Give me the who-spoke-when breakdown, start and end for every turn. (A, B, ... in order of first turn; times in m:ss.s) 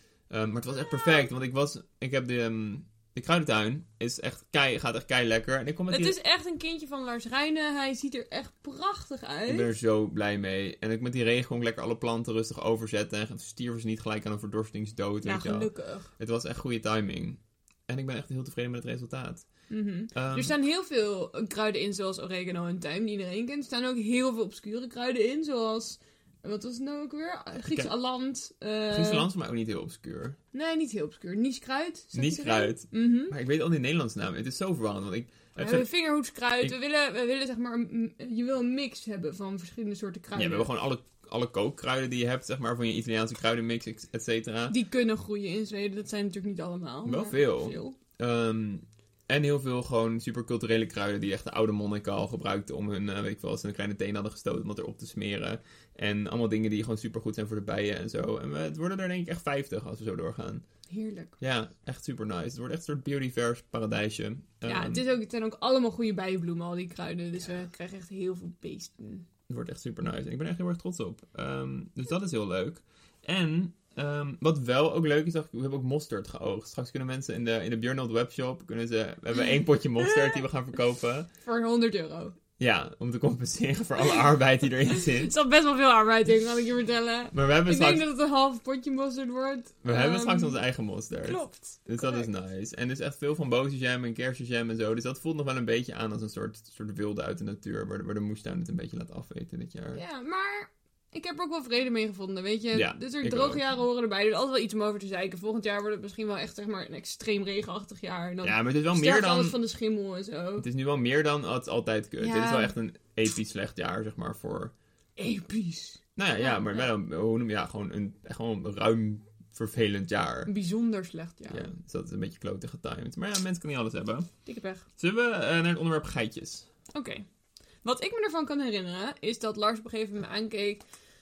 0:00.3-0:06.2 A
0:05.9-0:09.7 B
0:09.5-0:19.4 A
0:15.2-0:16.1 B
0:19.7-0:29.3 B
0:20.1-0:20.5 A
0:27.6-0:27.9 A
0:28.9-0:30.4 A
0:30.5-0:33.3 B
0:32.1-0:35.8 A
0:35.6-0:40.7 B
0:40.3-0:44.7 A
0:44.7-0:48.0 B
0:47.0-1:00.6 A
1:00.9-1:01.3 B
1:01.4-1:05.0 A
1:04.6-1:09.2 B
1:09.5-1:21.3 A
1:21.4-1:22.3 B
1:22.6-1:25.3 A
1:25.0-1:30.6 B
1:27.3-1:28.0 A
1:29.8-1:40.0 A
1:31.2-1:32.3 B
1:39.9-1:50.6 B
1:42.7-1:43.6 A
1:48.4-1:49.6 A
1:50.6-1:54.7 A
1:52.2-1:52.7 B
1:55.2-1:56.9 B
1:56.2-2:00.5 A
2:00.5-2:01.7 B
2:01.5-2:04.3 A
2:04.4-2:04.8 B
2:05.0-2:06.7 A
2:06.9-2:07.2 B
2:07.8-2:10.8 B